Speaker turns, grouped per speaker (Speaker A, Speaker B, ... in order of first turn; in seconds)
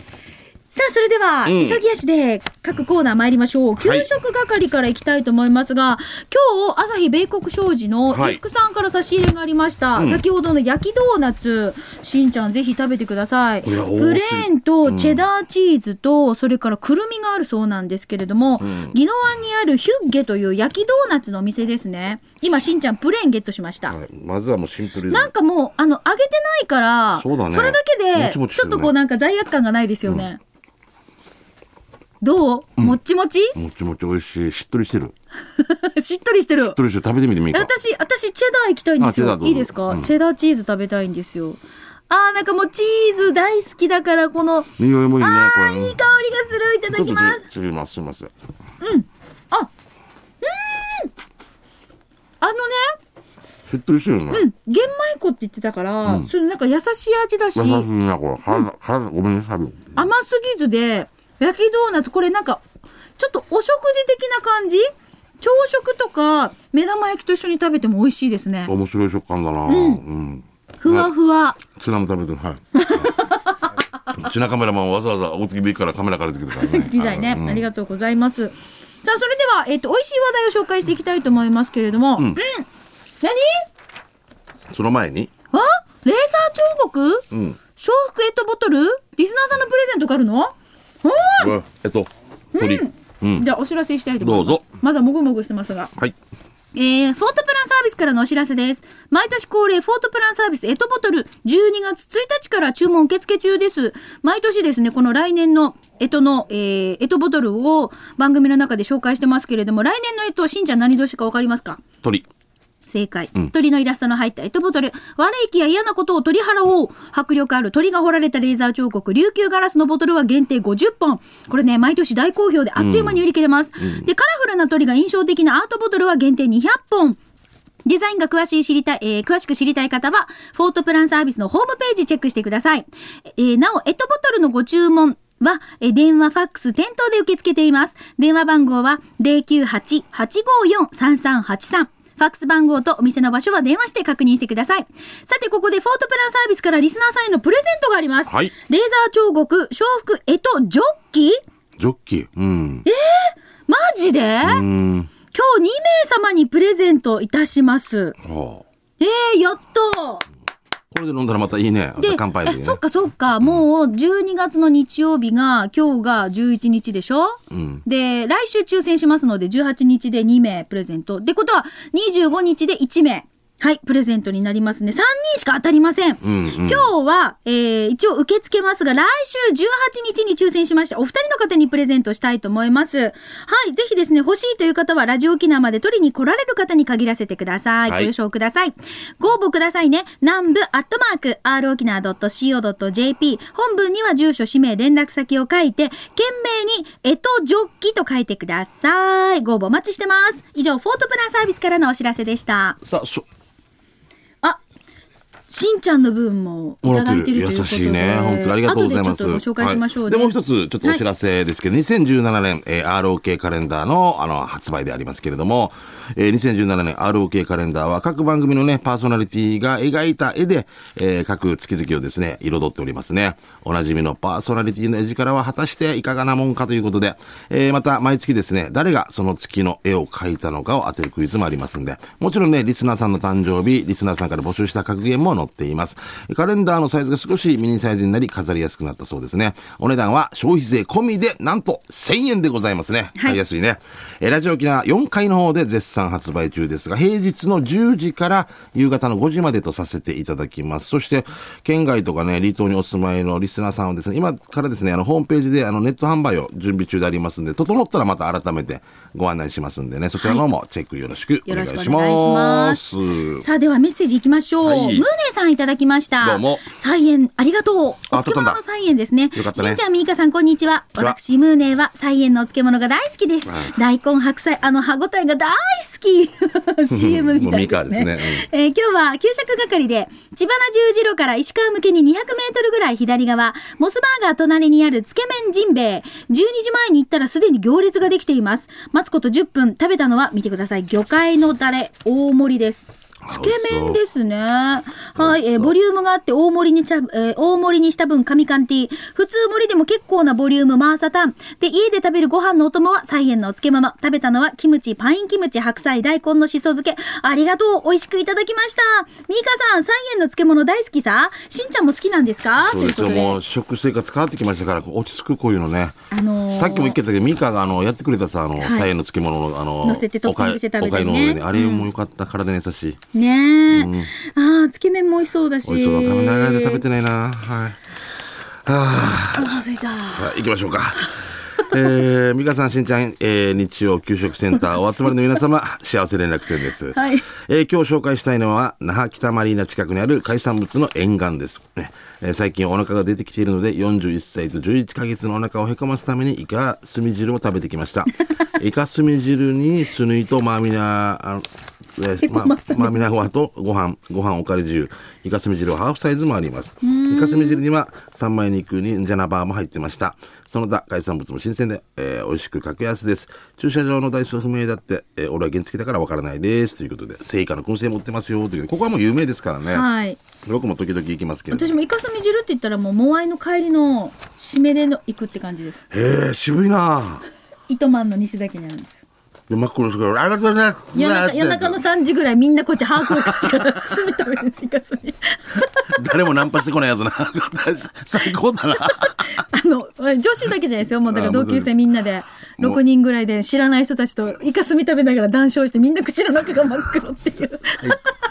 Speaker A: 0.7-23.9, 25.1-30.4, 32.2-33.5, 35.5-36.8, 37.5-47.4, 48.8-49.7, 50.4-51.1, 52.4-53.0, 54.3-57.9, 59.9-62.6, 63.2-64.9, 65.4-68.7, 69.7-70.0, 70.8-71.6, 72.7-73.7, 76.5-82.7, 83.2-83.7, 85.5-87.2, 87.8-91.5, 92.5-95.9, 96.7-111.8, 112.9-127.2, 127.8-151.4, 152.8-154.6, 155.3-158.2, 159.0-160.2, 162.0-202.8, 205.5-211.0, 260.2-260.4, 261.4-262.8, 263.4-313.4, 316.1-317.0, 318.6-318.9, 319.8-321.9, 323.1-326.8, 329.3-330.3, 336.9-337.2, 352.2-353.0, 356.8-357.6, 369.7-370.2, 371.5-375.8, 377.7-379.0, 380.9-385.9, 388.9-398.1
Speaker B: 1.4-1.8, 3.8-4.1, 8.1-8.4, 9.9-10.2, 13.6-15.2, 18.6-18.9, 23.9-25.3, 27.1-28.9, 33.5-35.1, 36.8-37.7, 39.0-40.1, 44.8-46.0, 46.9-48.3, 53.7-54.5, 56.0-56.3, 57.5-60.0, 68.7-71.1, 71.6-73.1, 74.1-77.7, 84.7-85.3, 87.3-87.6, 91.4-93.5, 94.2-94.6, 122.8-123.2, 123.8-124.1, 148.3-148.5, 151.8-152.9, 154.4-155.1, 158.2-158.6, 160.9-162.8, 167.5-167.8, 176.2-176.9, 187.8-188.1, 202.8-203.2, 206.8-263.4, 264.6-265.1, 266.2-266.6, 268.1-268.6, 269.3-269.8, 273.5-273.8, 276.9-278.5, 293.2-294.0, 295.1-295.7, 312.7-316.0, 316.6-323.0, 323.7-324.1, 325.6-327.8, 328.6-329.6, 330.1-351.4, 352.0-369.8, 370.4-371.8, 375.9-377.2, 379.5-381.8, 383.2-383.7, 385.9-389.3, 391.1-391.7